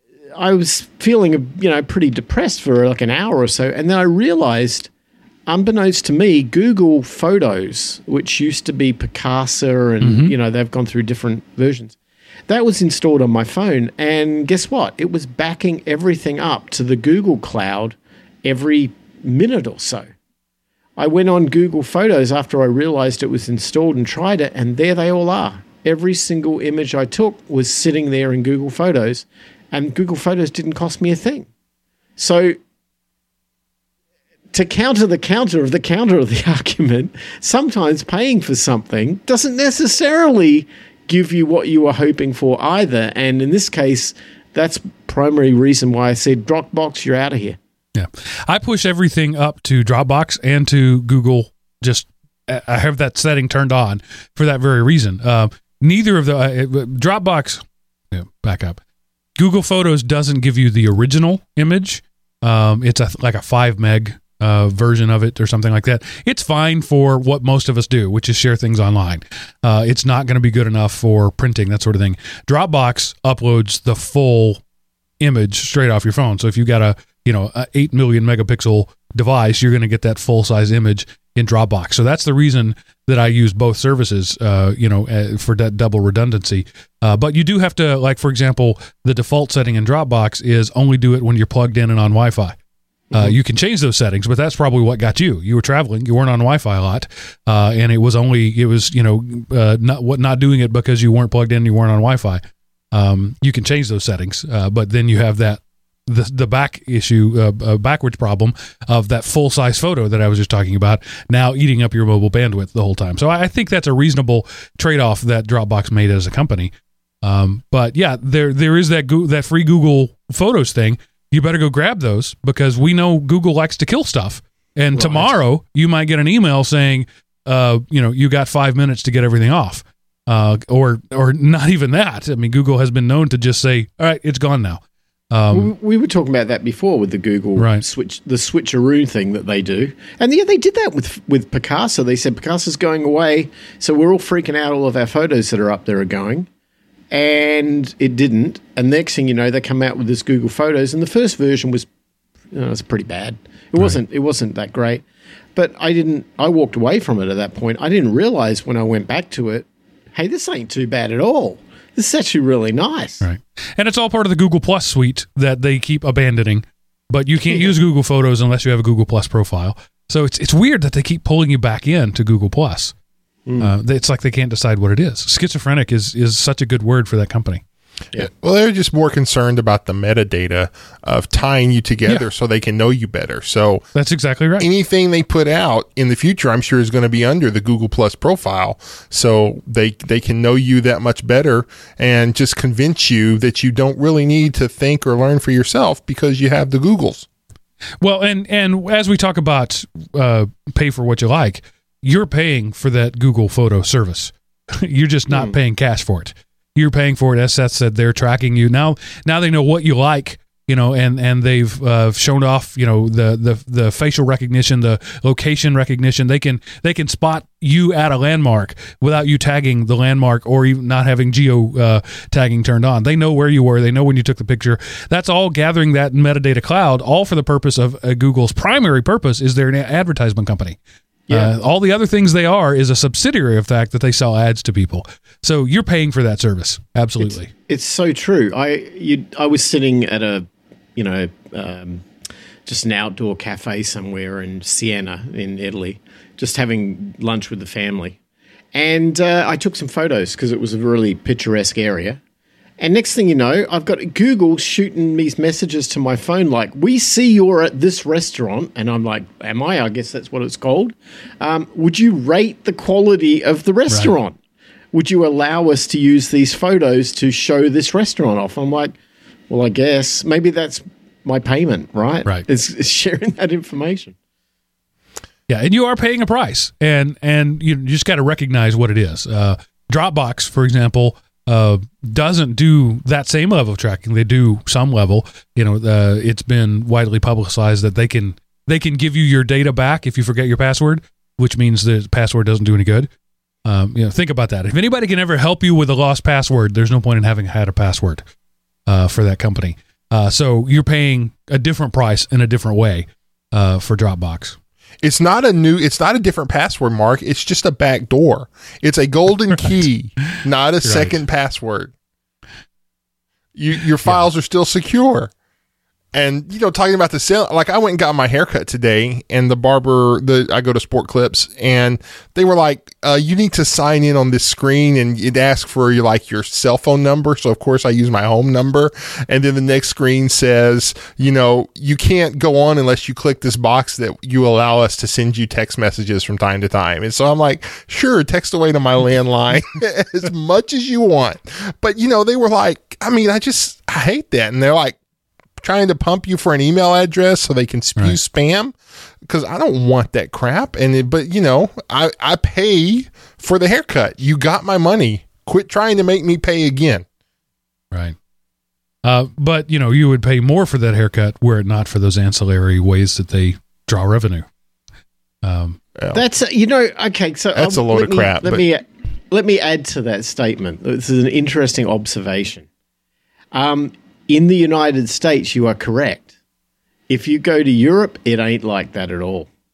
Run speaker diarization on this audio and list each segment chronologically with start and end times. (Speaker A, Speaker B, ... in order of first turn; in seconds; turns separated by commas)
Speaker A: 0.3-4.9, Speaker A: 5.5-12.0, Speaker B: 10.0-10.3, Speaker A: 12.5-20.1, Speaker A: 21.0-31.5, Speaker A: 32.2-32.6, Speaker A: 34.5-47.6, Speaker B: 48.0-58.8, Speaker B: 59.4-74.6, Speaker B: 75.2-92.6, Speaker B: 93.1-102.4, Speaker B: 102.9-135.7, Speaker A: 124.9-125.3, Speaker A: 135.5-146.5, Speaker B: 137.6-137.8, Speaker A: 147.1-151.9, Speaker A: 152.5-155.0, Speaker A: 155.6-163.2, Speaker B: 163.2-172.9, Speaker A: 167.5-167.8, Speaker A: 173.5-173.7, Speaker B: 173.6-177.6, Speaker C: 178.2-183.8, Speaker B: 183.9-184.7, Speaker C: 184.6-197.3, Speaker B: 198.0-230.8, Speaker A: 205.3-205.6, Speaker B: 231.3-237.5, Speaker A: 237.2-242.1, Speaker A: 242.7-248.2, Speaker A: 248.7-252.2, Speaker A: 252.8-264.4, Speaker A: 264.9-268.9, Speaker A: 269.5-274.1, Speaker B: 275.5-293.1, Speaker B: 293.6-298.2, Speaker B: 298.9-304.6, Speaker C: 305.0-311.9, Speaker B: 310.8-311.2, Speaker C: 313.6-315.3, Speaker C: 316.1-345.0, Speaker C: 345.6-357.1, Speaker B: 359.0-364.5, Speaker B: 365.4-365.8, Speaker C: 366.0-366.2, Speaker A: 366.1-372.7, Speaker C: 367.6-368.6, Speaker A: 373.5-376.3, Speaker A: 377.1-379.5